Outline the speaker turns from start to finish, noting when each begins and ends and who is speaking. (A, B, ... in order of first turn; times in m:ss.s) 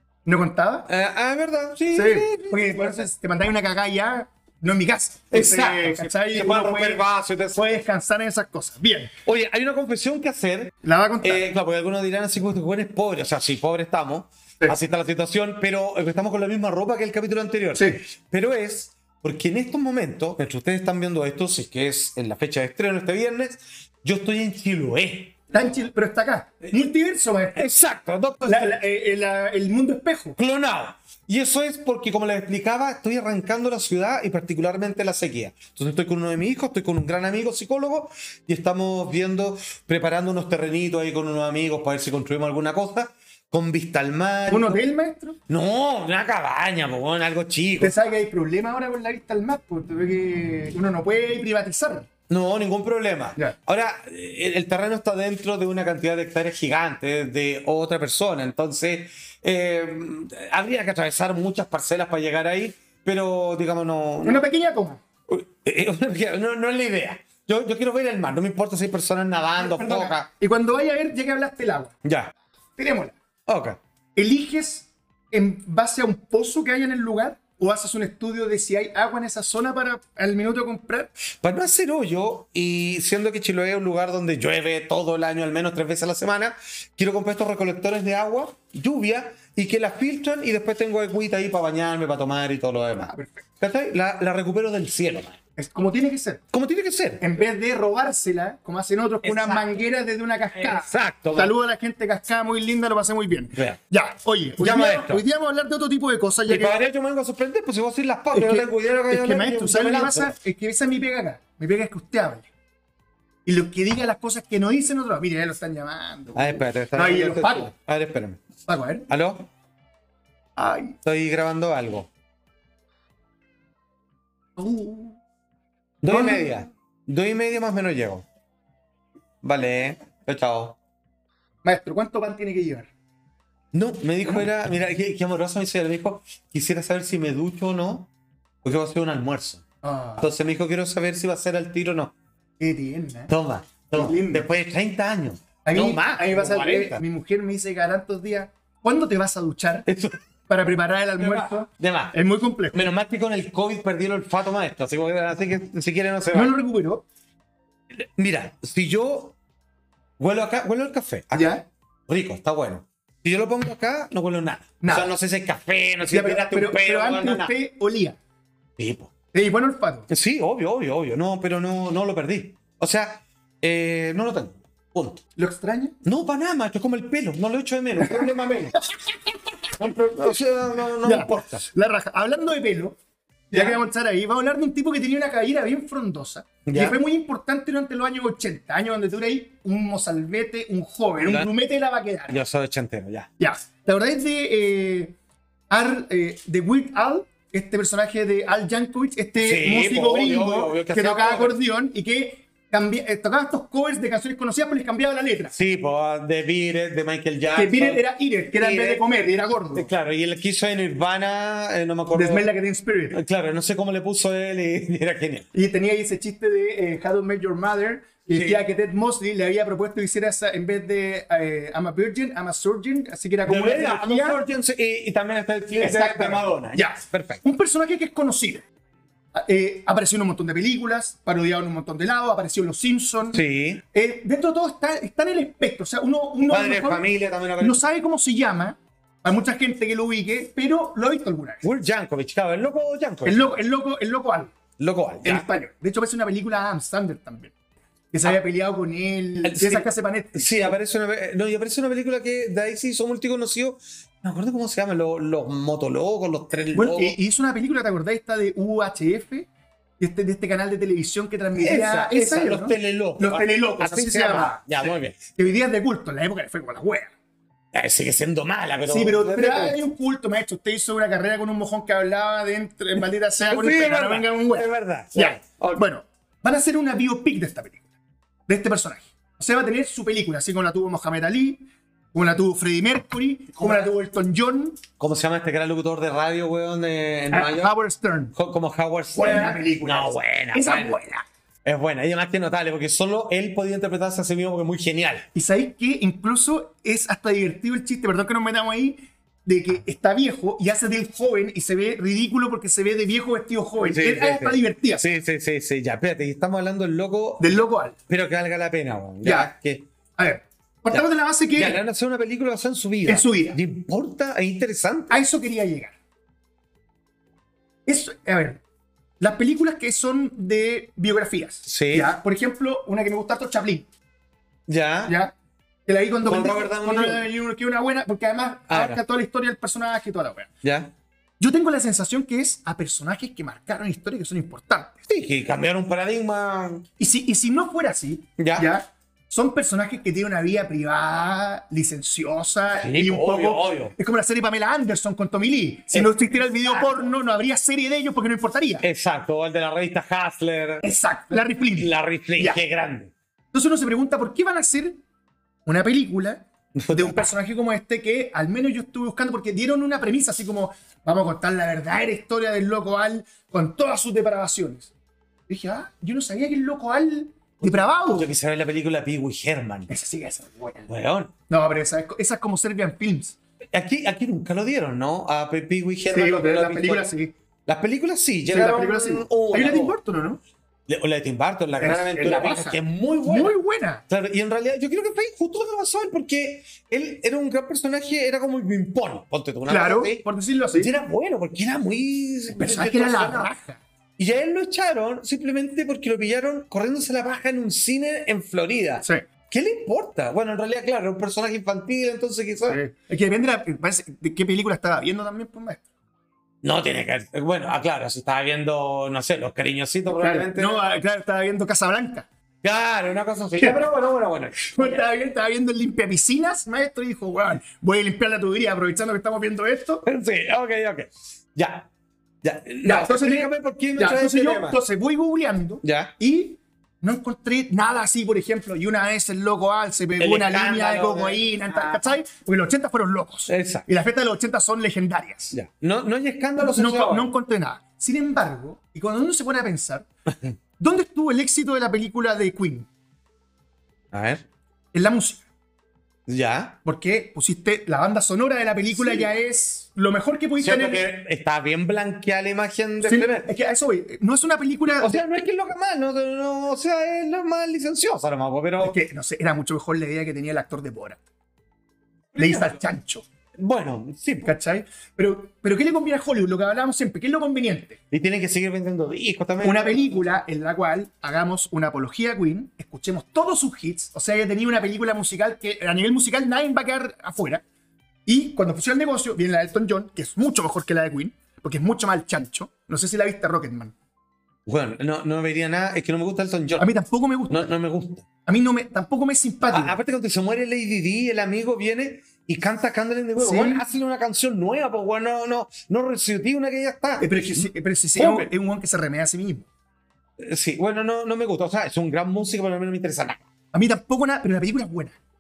0:00.2-0:00.9 A
0:00.9-0:03.1 B
0:01.9-0:07.0 A
0:05.3-0:07.8 B
0:07.6-0:09.1 A
0:09.3-0:25.4 B
0:10.8-0:11.5 A
0:25.5-0:27.7 A
0:27.6-0:28.8 B
0:28.4-0:30.4 A
0:30.4-0:44.8 B
0:44.5-0:45.4 A
0:45.5-0:47.9 B
0:47.8-0:52.1 A
0:52.3-1:04.4 B
1:04.2-1:05.0 A
1:05.3-1:10.3 B
1:09.6-1:11.9 A
1:12.0-1:12.3 B
1:12.8-1:13.2 A
1:13.5-1:13.8 B
1:14.2-1:21.1 A
1:21.4-1:35.4 B
1:33.0-1:33.4 A
1:35.6-1:36.4 A
1:36.5-1:37.2 B
1:37.2-1:46.8 A
1:39.2-1:39.8 B
1:40.6-1:41.5 B
1:44.6-1:45.2 B
1:46.5-1:50.3 B
1:48.3-1:52.5 A
1:53.4-1:57.7 A
1:56.4-1:58.5 B
1:58.7-1:59.1 A
1:59.1-1:59.5 B
2:00.6-2:01.0 A
2:01.0-2:02.1 B
2:04.6-2:05.2 A
2:06.0-2:08.3 B
2:06.1-2:06.5 A
2:09.4-2:10.8 B
2:11.6-2:12.9 A
2:13.7-2:18.1 B
2:18.6-2:19.6 B
2:19.8-2:20.3 A
2:20.2-2:22.2 B
2:22.6-2:23.3 A
2:23.3-2:27.0 B
2:23.9-2:24.5 A
2:25.6-2:29.9 A
2:29.9-2:30.2 B
2:30.5-2:32.8 A
2:31.2-2:32.1 B
2:32.7-2:36.5 B
2:36.3-2:37.0 A
2:38.0-2:39.4 B
2:40.2-2:47.5 B
2:41.3-2:41.6 A
2:44.8-2:45.2 A
2:46.1-2:48.2 A
2:48.8-2:49.1 B
2:49.3-2:50.1 A
2:50.1-2:55.2 B
2:55.4-2:56.0 A
2:56.0-2:58.8 B
2:58.0-2:58.3 A
2:59.8-3:01.6 B
3:01.0-3:03.0 A
3:03.5-3:12.4 A
3:03.5-3:03.8 B
3:06.7-3:07.0 B
3:12.3-3:13.3 B
3:13.4-3:15.2 A
3:15.7-3:25.5 A
3:19.4-3:21.6 B
3:25.5-3:28.0 B
3:27.6-3:29.9 A
3:28.6-3:29.0 B
3:29.8-3:32.5 B
3:32.1-3:33.2 A
3:33.1-3:35.5 B
3:35.5-3:44.4 A
3:38.3-3:38.6 B
3:43.4-3:47.4 B
3:45.8-3:48.6 A
3:49.3-3:53.4 A
3:53.3-3:53.8 B
3:53.9-3:57.1 A
3:56.5-3:57.8 B
3:57.6-4:01.6 A
4:01.6-4:03.6 B
4:03.3-4:04.5 A
4:04.8-4:05.5 B
4:05.2-4:07.6 A
4:08.1-4:10.8 A
4:09.4-4:17.2 B
4:16.7-4:19.5 A
4:20.0-4:27.1 A
4:21.6-4:25.2 B
4:27.7-4:29.9 B
4:28.9-4:37.8 A
4:33.4-4:35.8 B
4:38.5-4:44.8 A
4:45.0-4:47.7 B
4:47.3-4:48.3 A
4:48.3-4:51.0 B
4:49.2-4:51.2 A
4:51.6-4:55.3 B
4:55.4-5:05.1 A
5:03.8-5:09.9 B
5:07.4-5:08.0 A
5:09.2-5:09.5 A
5:10.2-5:11.8 A
5:10.9-5:15.2 B
5:13.1-5:13.6 A
5:15.1-5:15.9 A
5:17.9-5:18.6 A
5:19.2-5:23.9 A
5:21.7-5:22.1 B
5:24.7-5:25.2 B
5:25.1-5:25.3 A
5:25.9-5:30.5 A
5:26.2-5:27.2 B
5:28.7-5:29.0 B
5:30.6-5:30.9 B
5:31.4-5:35.0 A
5:35.1-5:36.9 B
5:37.0-5:48.8 A
5:38.4-5:38.7 B
5:42.7-5:44.0 B
5:45.9-5:47.0 B
5:48.8-5:50.8 B
5:50.8-5:52.6 A
5:51.8-5:53.1 B
5:53.5-5:55.0 A
5:55.7-6:04.9 A
5:56.8-5:57.3 B
6:05.5-6:08.3 A
6:07.6-6:09.9 B
6:09.9-6:10.9 A
6:10.9-6:11.3 B
6:11.5-6:13.4 A
6:13.7-6:17.1 B
6:16.1-6:17.3 A
6:17.7-6:20.0 B
6:18.5-6:20.4 A
6:20.9-6:23.6 B
6:21.8-6:24.0 A
6:24.1-6:30.2 B
6:29.7-6:30.9 A
6:30.8-6:33.5 B
6:32.6-6:33.8 A
6:34.2-6:42.8 B
6:42.7-6:45.8 A
6:46.6-6:50.8 B
6:50.1-6:52.3 A
6:52.6-6:55.1 B
6:53.6-6:53.8 A
6:54.7-7:00.0 A
7:00.0-7:01.9 B
7:02.4-7:04.8 B
7:02.8-7:15.5 A
7:05.8-7:06.1 B
7:10.2-7:12.1 B
7:13.5-7:13.9 B
7:15.5-7:17.3 B
7:16.6-7:20.1 A
7:20.8-7:22.9 A
7:24.1-7:24.4 B
7:24.9-7:25.4 A
7:26.3-7:26.8 B
7:26.8-7:31.0 A
7:28.9-7:29.3 B
7:30.6-7:33.5 B
7:33.0-7:35.2 A
7:35.0-7:39.0 B
7:38.8-7:41.2 A
7:42.4-7:42.7 B
7:42.4-7:43.2 A
7:43.6-7:44.5 B
7:44.4-7:48.0 A
7:48.1-7:50.2 B
7:49.6-7:57.6 A
7:58.3-8:03.9 A
8:04.7-8:06.9 B
8:06.8-8:07.7 A
8:07.5-8:08.3 B
8:08.5-8:10.0 A
8:09.7-8:18.5 B
8:13.4-8:13.8 A
8:17.2-8:19.7 A
8:20.4-8:23.4 B
8:23.7-8:25.2 A